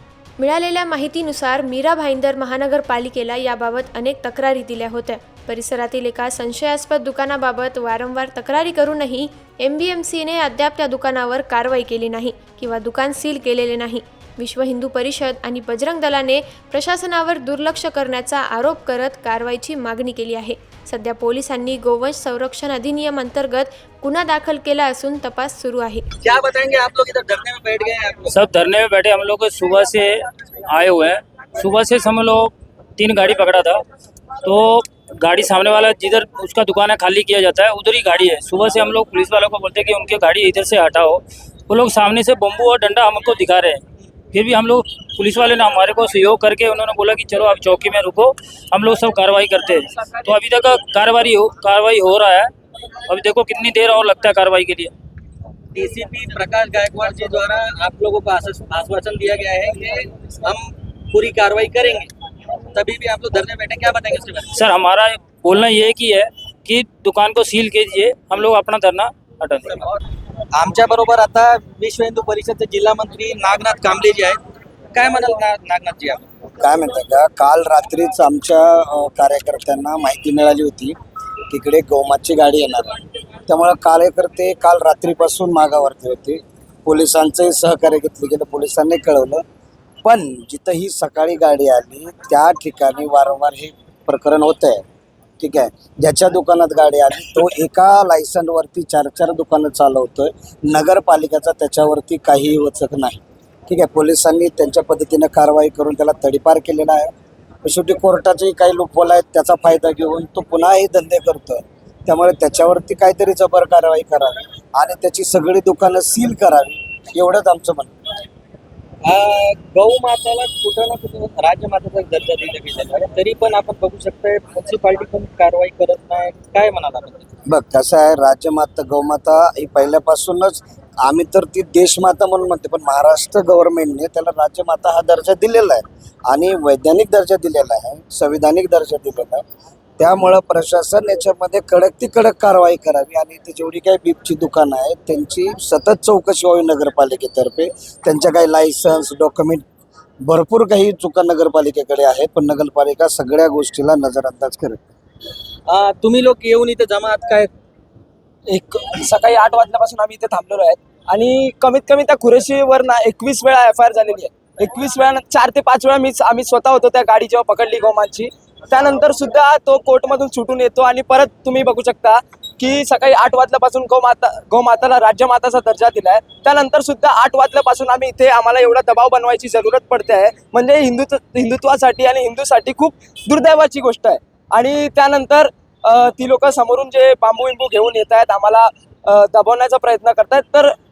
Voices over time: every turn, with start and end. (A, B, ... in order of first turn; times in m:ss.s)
0:00.4-0:26.0 A
0:26.2-0:28.3 B
0:28.3-0:33.8 C
0:34.4-0:52.5 C
0:53.0-0:54.9 C
0:55.7-1:04.5 B
1:04.5-1:09.8 C
1:10.5-1:14.4 B
1:14.9-1:16.3 B
1:16.6-1:21.0 D
1:21.5-1:29.4 D
1:30.0-1:34.8 D
1:35.4-1:47.1 D
1:47.6-1:57.9 D
1:59.0-2:07.3 B
2:07.5-2:19.4 D
2:20.0-2:29.6 D
2:30.2-2:34.8 D
2:35.7-2:37.5 B
2:38.4-3:10.8 E